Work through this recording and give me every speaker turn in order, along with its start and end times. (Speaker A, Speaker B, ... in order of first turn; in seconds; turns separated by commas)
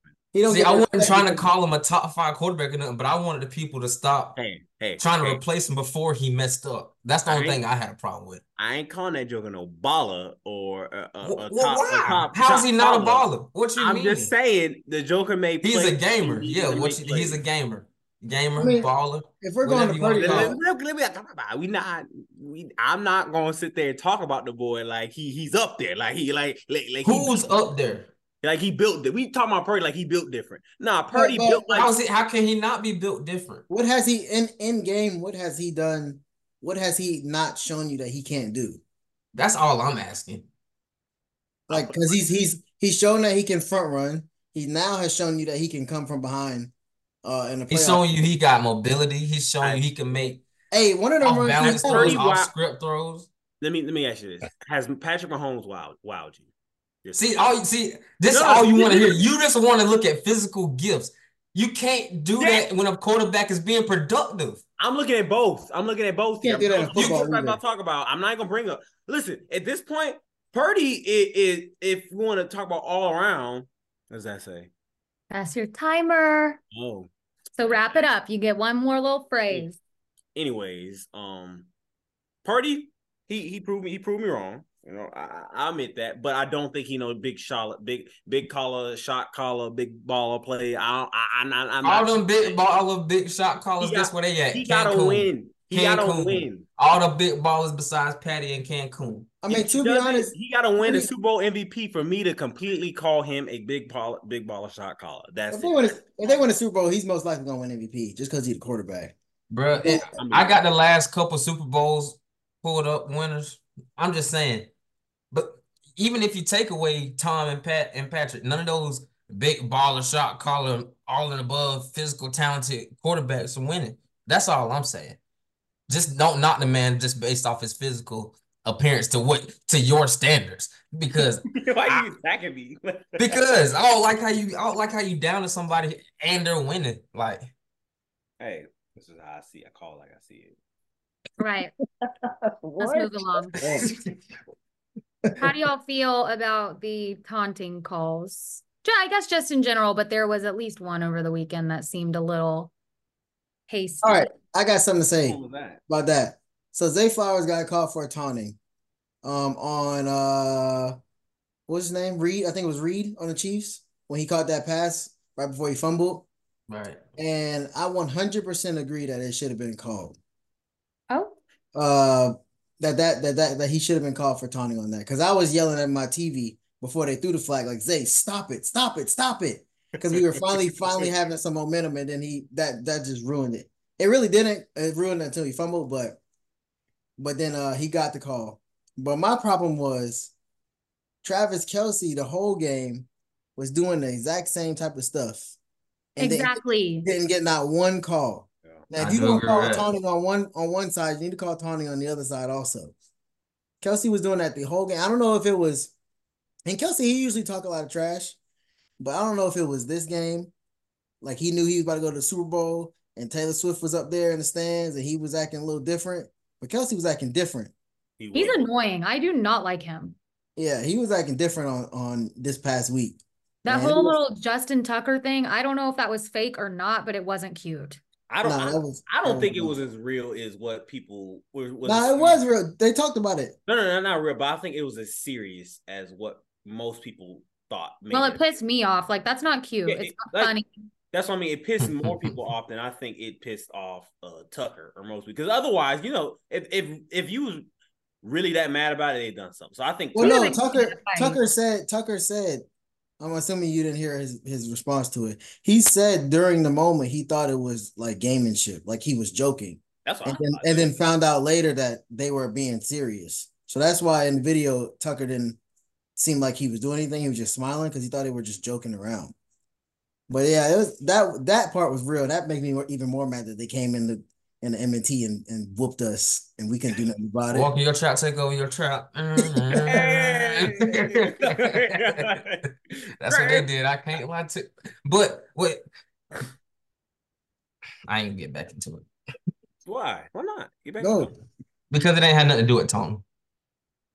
Speaker A: 0.3-1.5, Speaker B: 0.5-4.4, Speaker C: 4.4-5.4, Speaker B: 5.0-8.4, Speaker C: 7.3-7.6, Speaker C: 8.6-17.4, Speaker B: 11.2-14.3, Speaker B: 15.6-20.6, Speaker A: 18.6-18.9, Speaker A: 19.4-20.6, Speaker C: 20.2-27.5, Speaker B: 27.1-28.1, Speaker C: 28.4-31.9, Speaker A: 31.1-31.9, Speaker B: 31.7-33.6, Speaker A: 33.7-38.8, Speaker B: 39.3-40.5, Speaker A: 41.7-46.7, Speaker C: 41.7-42.1, Speaker A: 47.2-48.0, Speaker B: 47.7-50.4, Speaker C: 49.6-49.9, Speaker A: 50.7-52.2, Speaker B: 51.2-53.3, Speaker C: 51.6-52.5, Speaker C: 53.6-56.5, Speaker C: 57.0-57.5, Speaker B: 57.1-64.6, Speaker C: 58.3-59.3, Speaker C: 62.4-62.7, Speaker C: 64.8-74.7, Speaker A: 66.4-67.6, Speaker B: 67.0-67.3, Speaker D: 75.3-76.6, Speaker C: 76.7-77.1, Speaker D: 77.6-79.8, Speaker C: 77.6-78.0, Speaker C: 80.4-81.7, Speaker C: 82.5-92.8, Speaker B: 91.8-99.3, Speaker C: 93.8-96.7, Speaker A: 99.4-101.1, Speaker C: 99.5-106.5, Speaker A: 105.5-109.2, Speaker B: 109.5-114.7, Speaker A: 109.8-110.2, Speaker C: 110.1-110.6, Speaker B: 115.3-125.2, Speaker B: 125.9-132.1, Speaker C: 131.6-133.5, Speaker B: 133.2-137.5, Speaker C: 138.4-140.6, Speaker D: 141.4-141.7, Speaker A: 142.1-143.9, Speaker D: 142.8-143.6, Speaker D: 145.4-152.7, Speaker D: 153.7-154.3, Speaker A: 154.0-158.6, Speaker C: 155.2-155.8, Speaker A: 159.2-161.0, Speaker A: 161.7-166.3, Speaker B: 166.7-167.0, Speaker A: 167.2-170.2, Speaker D: 171.1-171.4, Speaker A: 171.8-186.2, Speaker C: 180.1-181.1, Speaker A: 187.2-190.3, Speaker A: 191.2-195.6, Speaker A: 196.2-202.9, Speaker D: 196.2-197.1, Speaker B: 199.0-199.9, Speaker A: 203.8-205.9, Speaker A: 206.7-208.4, Speaker A: 209.0-210.5, Speaker A: 211.2-217.7, Speaker C: 218.2-218.7, Speaker D: 218.3-220.2, Speaker A: 220.6-224.2, Speaker D: 223.6-228.0, Speaker C: 228.3-232.4, Speaker A: 228.4-229.8, Speaker A: 231.8-233.6, Speaker C: 233.7-238.4, Speaker D: 238.1-240.7, Speaker C: 239.9-240.5, Speaker C: 241.1-247.7, Speaker B: 241.8-242.3, Speaker C: 248.2-250.6, Speaker A: 250.1-252.7, Speaker D: 250.2-251.4, Speaker A: 253.2-265.6, Speaker C: 260.1-261.0, Speaker A: 266.2-269.4, Speaker A: 270.3-277.7, Speaker B: 277.5-282.3, Speaker C: 279.8-282.6, Speaker B: 283.2-285.8, Speaker C: 283.2-283.7, Speaker B: 288.1-289.1, Speaker C: 289.9-291.4, Speaker A: 291.0-291.3, Speaker B: 291.9-293.2